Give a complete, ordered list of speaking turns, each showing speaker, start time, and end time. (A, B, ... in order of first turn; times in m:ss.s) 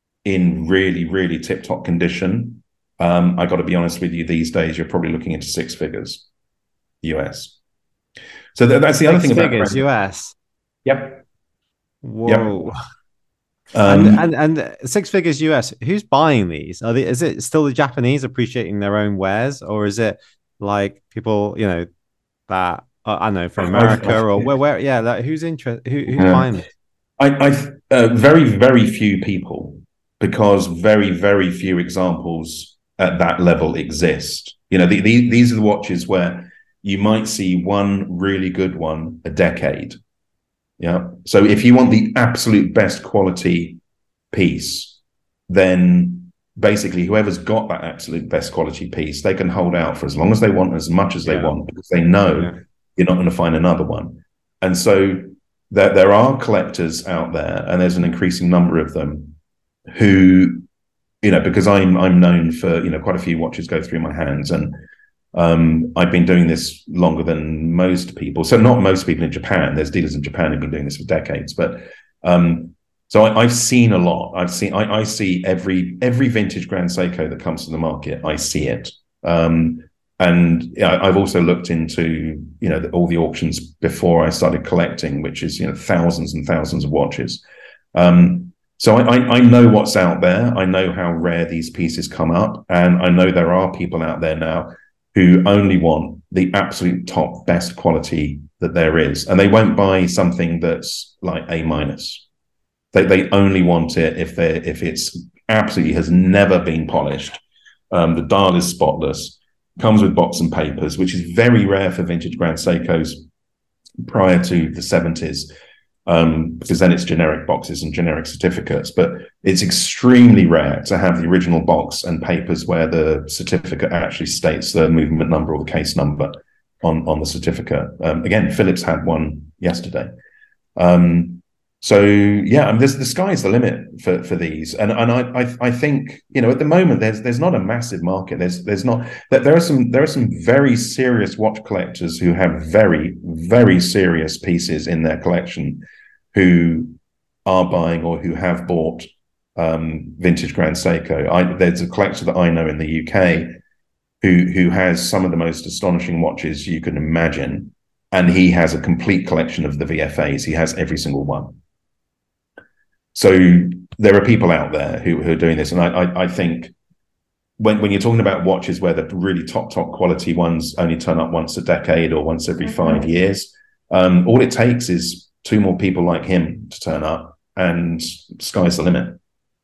0:00.2-0:06.3 A
0:07.0-0:07.6 A
0:08.6-0:09.9 A
0:09.1-0:10.4 B
0:10.8-0:11.2 A
0:12.0-0:12.8 B
0:12.3-0:12.7 A
0:13.7-0:14.2 A
0:13.9-0:21.9 B
0:22.5-0:26.6 B
0:23.7-0:24.5 A
0:26.2-0:26.5 A
0:27.2-0:40.0 A
0:40.8-0:43.8 A
0:44.3-0:45.0 A
0:45.5-0:59.4 A
0:51.3-0:51.6 B
0:59.9-1:00.6 A
1:01.2-1:04.8 A
1:05.3-1:27.4 A
1:27.9-1:42.2 A
1:42.9-1:47.4 A
1:47.9-1:53.2 A
1:54.0-1:55.5 A
1:56.1-2:10.1 A
2:10.8-2:33.6 A
2:34.2-2:41.6 A
2:43.1-2:46.7 A
2:47.6-2:59.2 A